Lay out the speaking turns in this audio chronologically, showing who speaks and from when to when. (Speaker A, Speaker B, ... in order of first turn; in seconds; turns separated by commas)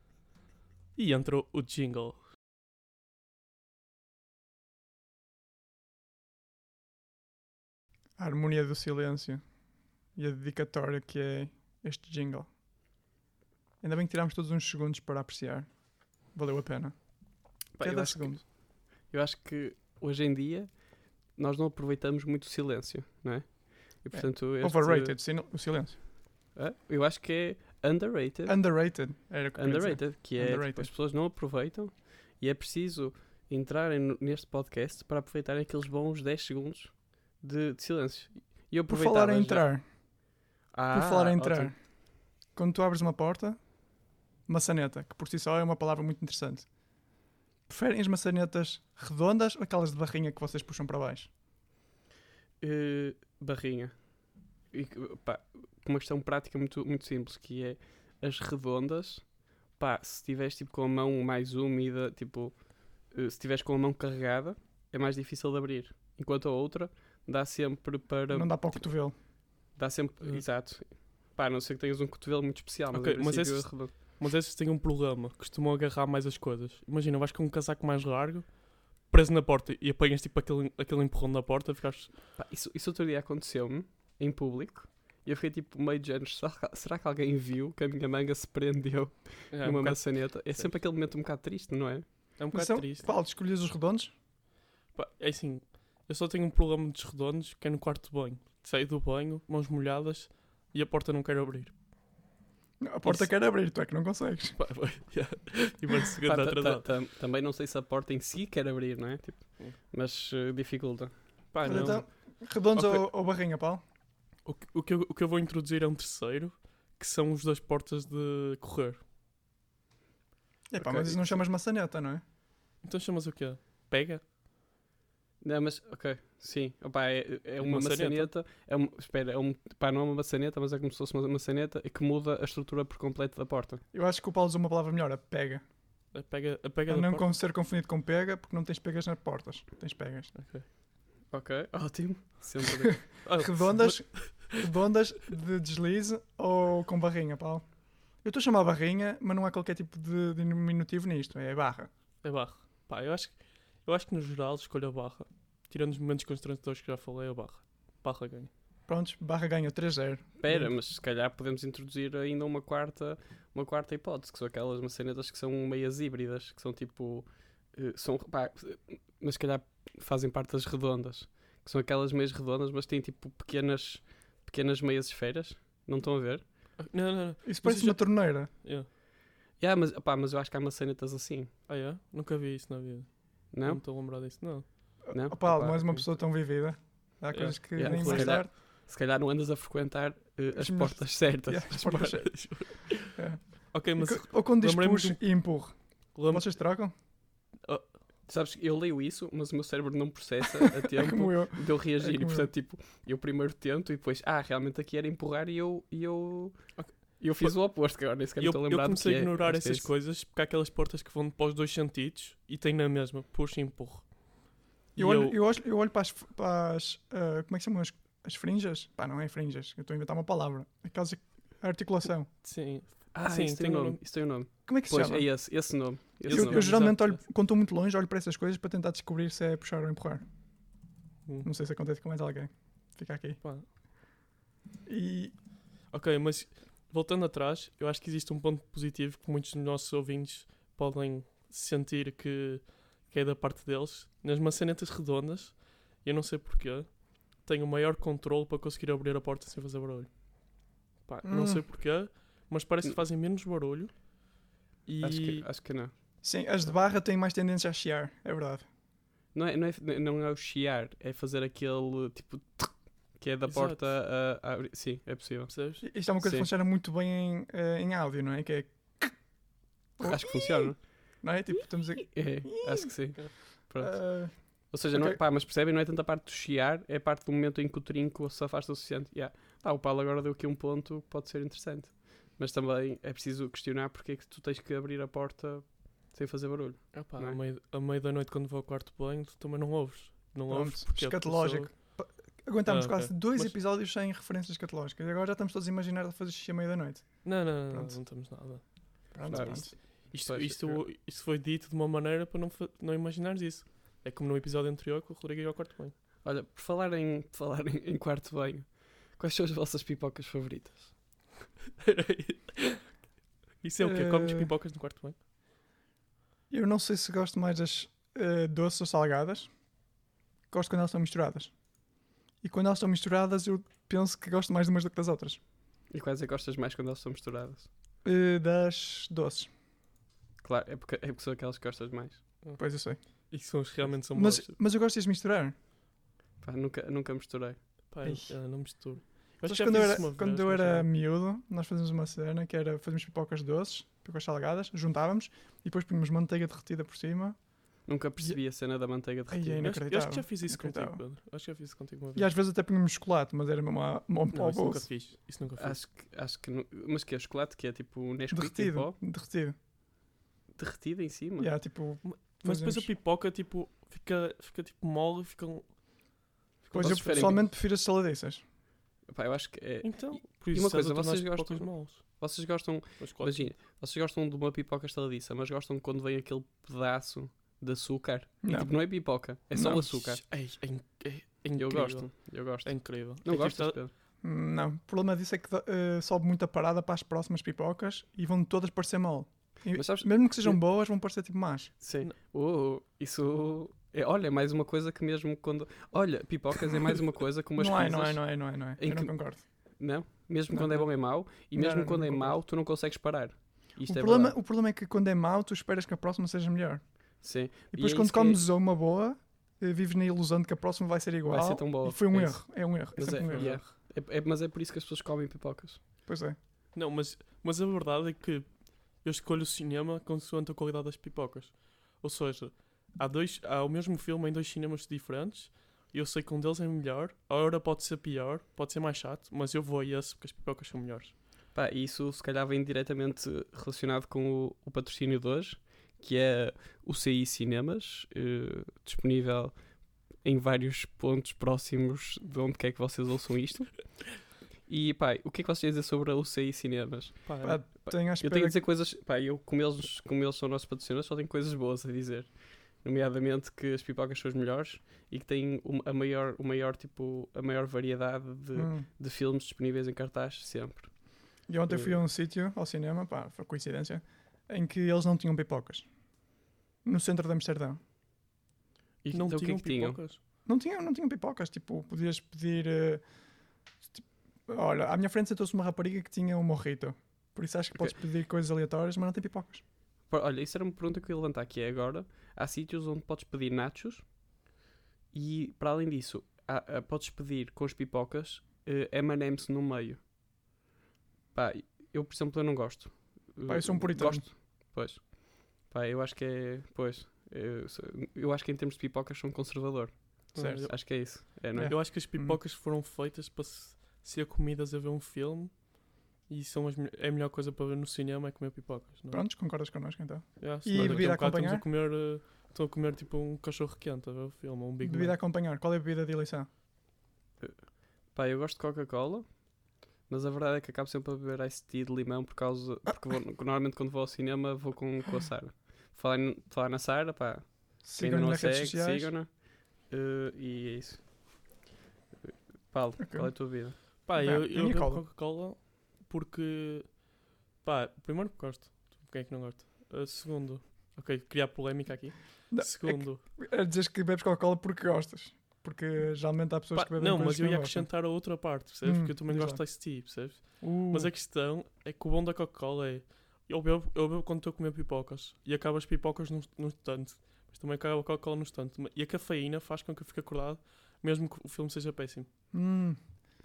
Speaker A: 0.9-2.2, Speaker B: 8.2-9.4, Speaker B: 10.2-12.5, Speaker B: 13.8-18.4, Speaker C: 17.8-25.2, Speaker B: 24.1-26.0, Speaker C: 26.6-28.7, Speaker B: 28.5-30.9, Speaker C: 29.6-39.7, Speaker B: 38.9-39.9, Speaker C: 40.7-41.7, Speaker B: 40.9-41.8, Speaker B: 42.4-43.6, Speaker B: 44.5-46.7, Speaker B: 47.7-51.3, Speaker C: 52.6-54.0, Speaker C: 54.7-69.0, Speaker B: 68.3-69.2, Speaker C: 69.7-74.0, Speaker A: 72.9-82.1, Speaker C: 82.4-92.3, Speaker A: 89.5-90.7, Speaker A: 92.4-93.1, Speaker B: 92.5-94.1, Speaker A: 94.9-101.8, Speaker B: 102.8-104.6, Speaker A: 103.0-103.3, Speaker A: 104.6-106.9, Speaker C: 106.2-112.0, Speaker A: 111.5-113.1, Speaker B: 111.7-113.8, Speaker A: 114.5-119.0, Speaker B: 120.7-122.2, Speaker A: 120.8-121.4, Speaker A: 122.8-124.2, Speaker C: 125.4-133.8, Speaker A: 127.6-128.3, Speaker B: 133.9-135.6, Speaker A: 136.1-137.3, Speaker B: 136.9-140.3, Speaker A: 140.3-140.7, Speaker C: 141.3-143.3, Speaker A: 143.2-144.6, Speaker B: 143.3-151.9, Speaker A: 152.2-158.5, Speaker B: 158.9-160.7, Speaker C: 160.4-176.8, Speaker A: 176.8-178.9, Speaker B: 177.4-178.5, Speaker C: 179.6-181.5, Speaker A: 181.7-186.4, Speaker C: 183.5-183.9, Speaker B: 185.0-188.5, Speaker C: 185.1-185.4, Speaker A: 187.3-188.5, Speaker C: 187.8-192.3, Speaker B: 190.6-196.9, Speaker A: 191.9-195.5, Speaker A: 196.1-196.7, Speaker A: 197.6-197.9, Speaker C: 198.3-209.9, Speaker B: 201.0-202.5, Speaker A: 206.8-207.8, Speaker A: 208.4-215.4, Speaker B: 215.0-222.3, Speaker A: 222.4-224.0, Speaker C: 223.1-226.7, Speaker B: 224.7-230.2, Speaker A: 226.2-227.2, Speaker B: 231.4-233.4, Speaker A: 233.4-233.7, Speaker B: 234.9-235.3, Speaker A: 235.9-255.5, Speaker B: 251.2-251.7, Speaker C: 255.0-255.9, Speaker B: 256.2-258.6, Speaker C: 259.3-266.5, Speaker A: 263.5-263.9, Speaker A: 265.5-265.8, Speaker B: 265.8-269.2, Speaker C: 270.0-270.9, Speaker B: 270.0-272.9, Speaker C: 272.1-287.4, Speaker B: 273.8-275.2, Speaker A: 286.9-291.8, Speaker B: 290.5-298.0, Speaker A: 292.7-293.6, Speaker A: 297.2-305.9, Speaker B: 299.1-299.8, Speaker C: 299.3-300.9, Speaker C: 306.2-311.3, Speaker A: 311.8-312.8, Speaker A: 313.6-315.2, Speaker B: 313.8-314.5, Speaker B: 316.5-319.5, Speaker B: 320.5-321.8, Speaker B: 322.4-325.4, Speaker C: 325.9-327.7, Speaker B: 328.0-329.5, Speaker C: 330.4-332.4, Speaker A: 332.4-334.5, Speaker B: 332.6-335.6, Speaker C: 336.4-337.6, Speaker A: 337.9-340.9, Speaker B: 338.0-338.6, Speaker B: 339.4-348.4, Speaker C: 347.9-349.7, Speaker B: 349.3-351.0, Speaker A: 349.6-352.3, Speaker B: 352.1-354.9, Speaker A: 354.3-355.8, Speaker C: 355.6-359.0, Speaker B: 358.3-359.6, Speaker C: 360.6-361.5, Speaker B: 361.4-362.9, Speaker A: 362.0-365.8, Speaker A: 366.6-367.5, Speaker B: 366.7-368.4, Speaker C: 366.8-367.4, Speaker C: 369.1-380.2, Speaker A: 369.8-372.0, Speaker A: 373.0-373.5, Speaker B: 378.4-379.9, Speaker A: 379.9-383.8, Speaker C: 381.6-383.9, Speaker B: 384.2-391.7, Speaker C: 389.7-390.6, Speaker C: 391.8-404.4, Speaker B: 397.6-399.4, Speaker B: 400.5-400.9, Speaker B: 401.5-402.4, Speaker B: 403.9-406.8, Speaker C: 407.2-408.5, Speaker B: 407.7-413.6, Speaker C: 411.3-415.8, Speaker A: 413.2-413.6, Speaker B: 416.1-416.4, Speaker A: 416.7-431.1, Speaker C: 431.5-462.0, Speaker A: 447.2-447.6, Speaker B: 447.4-448.6, Speaker B: 458.5-458.9, Speaker B: 461.5-465.9, Speaker B: 466.8-467.8, Speaker C: 469.0-470.1, Speaker A: 469.1-470.2, Speaker B: 470.5-473.1, Speaker B: 473.8-479.6, Speaker C: 480.1-484.1, Speaker C: 485.1-490.0, Speaker C: 491.4-501.8, Speaker B: 493.5-494.3, Speaker A: 500.3-509.2, Speaker B: 500.4-502.4, Speaker B: 509.1-511.7, Speaker A: 510.4-515.2, Speaker C: 510.7-511.1, Speaker B: 514.8-516.5, Speaker C: 517.4-519.4, Speaker C: 520.0-531.6, Speaker B: 527.8-529.1, Speaker C: 532.2-533.8, Speaker B: 533.0-535.0, Speaker A: 534.0-543.2, Speaker B: 542.5-548.3, Speaker A: 546.7-562.3, Speaker B: 548.8-550.1, Speaker B: 550.6-551.1, Speaker B: 562.5-563.1